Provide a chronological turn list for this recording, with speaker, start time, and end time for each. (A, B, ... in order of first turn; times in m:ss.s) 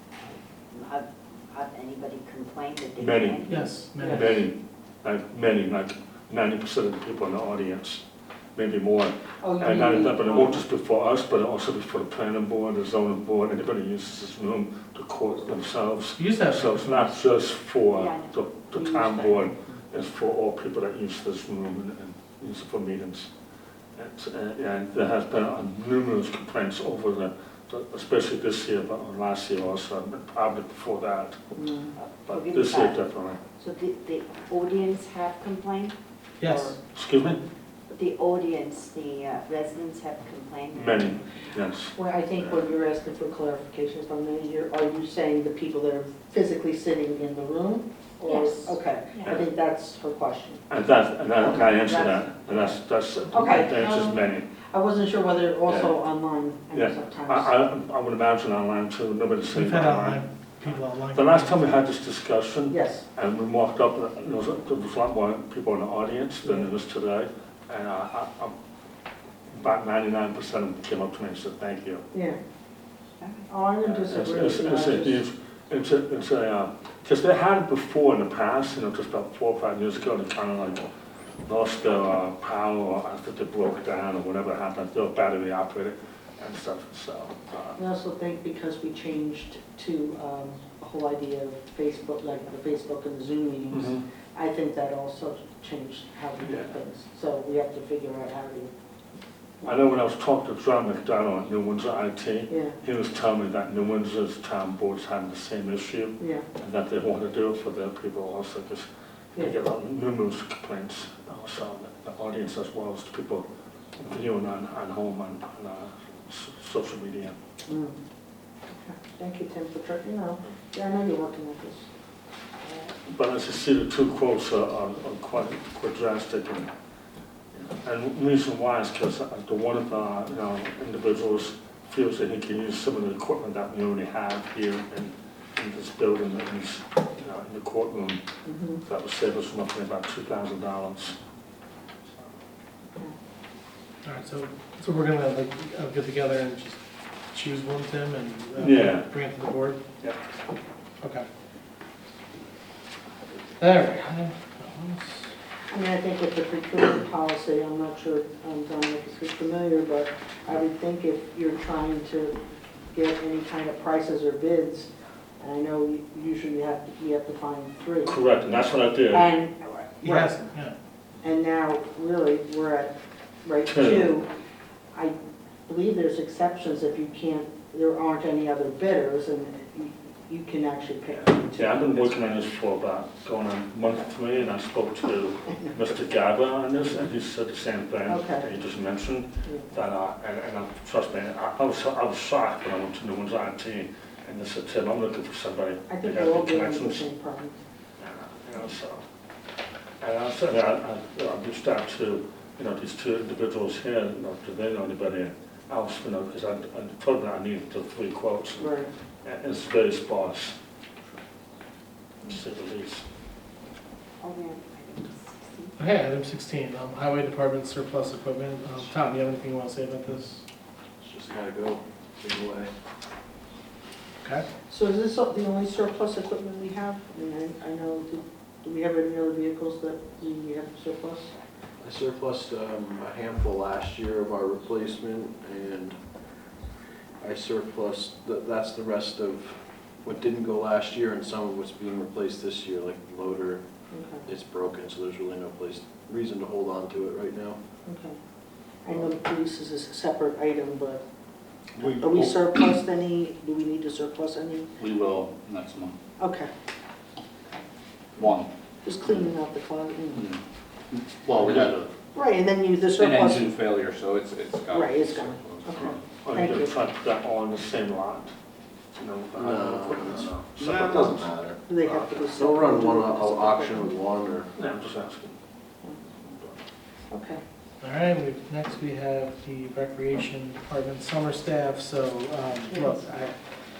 0:00.7-0:03.7 A
0:03.0-0:03.5 B
0:03.5-0:04.4 C
0:04.0-0:04.4 D
0:04.0-0:08.0 B
0:08.6-0:23.3 B
0:09.4-0:10.6 D
0:16.2-0:17.2 C
0:17.9-0:19.5 A
0:24.0-0:31.4 B
0:31.6-0:32.0 D
0:32.0-0:33.0 A
0:32.3-0:33.4 B
0:33.6-0:36.8 A
0:36.4-0:36.8 C
0:36.9-0:37.4 B
0:37.9-0:41.4 A
0:40.8-0:41.9 B
0:42.0-0:50.6 D
0:48.3-0:49.4 A
0:50.7-0:54.5 B
0:51.9-0:52.3 D
0:53.3-0:57.6 D
0:56.7-1:00.2 B
0:59.5-1:01.8 C
1:01.1-1:08.5 B
1:02.7-1:03.0 D
1:09.5-1:12.1 B
1:12.1-1:12.4 D
1:13.2-1:13.5 A
1:13.5-1:15.2 D
1:13.8-1:20.8 B
1:21.5-1:27.8 B
1:27.8-1:38.7 D
1:33.7-1:34.0 B
1:36.4-1:36.7 B
1:39.6-1:53.4 B
1:42.5-1:42.8 D
1:46.2-1:46.4 D
1:54.0-1:57.4 B
1:57.7-1:58.0 D
1:58.8-2:01.9 D
2:02.6-2:02.9 D
2:03.1-2:06.7 B
2:07.5-2:18.2 B
2:18.4-2:18.8 D
2:18.8-2:21.2 B
2:22.1-2:22.3 B
2:24.0-2:26.8 C
2:27.3-2:29.8 C
2:28.6-2:29.1 B
2:33.6-2:35.3 C
2:35.7-2:42.4 D
2:42.9-2:44.9 D
2:45.4-2:48.2 D
2:48.0-2:49.3 B
2:49.1-2:50.4 D
2:50.0-2:50.8 C
2:51.2-2:52.9 D
2:53.4-2:54.3 D
2:53.7-2:54.1 B
2:55.7-3:02.1 D
3:01.5-3:17.0 B
3:08.1-3:08.5 D
3:09.4-3:09.7 D
3:15.9-3:17.6 D
3:18.0-3:19.0 B
3:20.0-3:28.7 B
3:28.6-3:28.9 D
3:29.2-3:30.6 B
3:32.2-3:33.0 B
3:34.2-3:35.7 A
3:35.8-3:40.4 C
3:41.0-3:42.7 E
3:44.7-3:51.3 D
3:51.8-3:56.0 E
3:57.2-4:03.6 E
4:03.9-4:04.2 D
4:04.2-4:07.6 E
4:07.9-4:08.2 D
4:08.8-4:11.0 D
4:11.8-4:12.3 F
4:11.8-4:14.7 D
4:14.8-4:16.0 F
4:16.2-4:16.5 D
4:18.2-4:18.5 F
4:18.8-4:20.3 D
4:20.9-4:21.9 F
4:22.1-4:23.6 D
4:23.0-4:25.8 F
4:24.7-4:26.7 D
4:26.2-4:28.3 B
4:29.0-4:31.2 B
4:29.4-4:31.6 E
4:31.7-4:34.0 D
4:32.3-4:34.5 E
4:34.6-4:35.4 B
4:36.2-4:36.6 B
4:37.1-4:37.4 D
4:37.8-4:43.3 C
4:42.7-4:43.0 D